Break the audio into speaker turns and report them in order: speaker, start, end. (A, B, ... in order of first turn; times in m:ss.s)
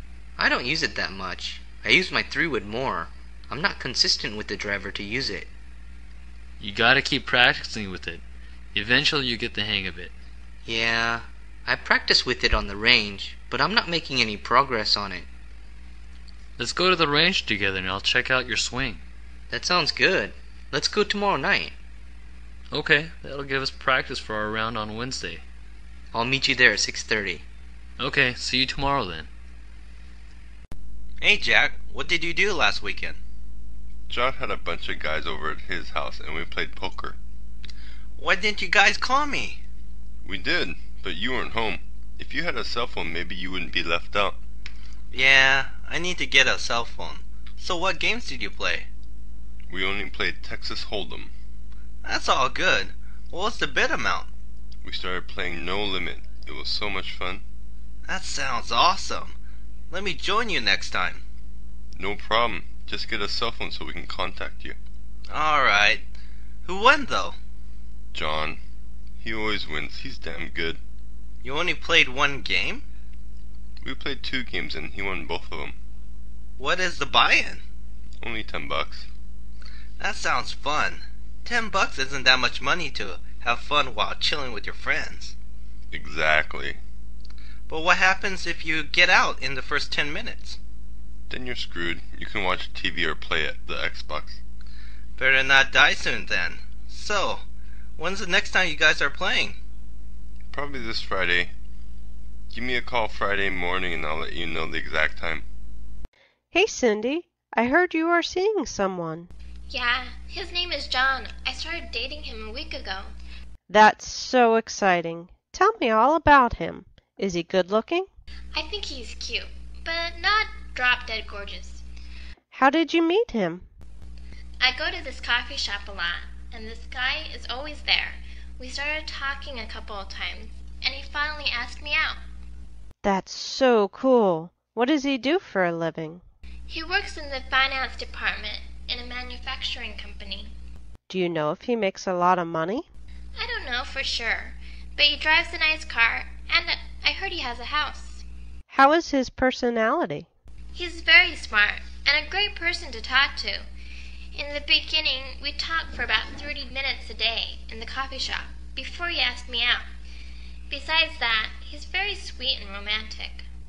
0:00.4-0:05.5 A
0:06.6-0:08.2 B
0:08.7-0:10.1 B
0:10.7-0:15.3 A
0:16.6-0:19.0 B
0:19.5-0:21.8 A
0:22.7-0:25.4 B
0:26.1-0:27.4 A
0:28.0-0:29.3 B
0:31.2-0:33.2 C
0:34.1-0:37.2 D
0:38.2-0:39.6 C
0:40.2-0:44.4 D
0:45.1-0:48.9 C
0:49.7-0:51.3 D
0:52.0-0:54.3 C
0:54.8-0:57.4 D
0:58.1-0:59.4 C
0:59.9-1:01.2 C
1:02.0-1:04.8 D
1:05.3-1:06.0 C
1:06.7-1:07.4 C
1:08.1-1:08.6 D
1:09.2-1:10.8 D
1:11.4-1:12.8 C
1:13.8-1:15.8 D
1:16.6-1:17.6 C
1:18.2-1:19.1 D
1:20.0-1:25.4 C
1:25.9-1:26.8 D
1:27.7-1:30.6 C
1:31.3-1:34.4 D
1:35.2-1:37.4 C
1:38.0-1:39.6 C
1:40.5-1:41.5 D
1:42.5-1:45.4 D
1:46.5-1:49.3 E
1:49.7-1:53.1 F
1:53.7-1:58.1 E
1:58.5-2:01.8 F
2:02.5-2:03.7 E
2:04.6-2:12.2 F
2:13.0-2:16.2 E
2:16.7-2:20.5 F
2:21.1-2:22.9 E
2:23.4-2:28.2 F
2:28.7-2:30.3 E
2:30.8-2:33.7 F
2:34.3-2:39.9 F
2:40.7-2:43.5 F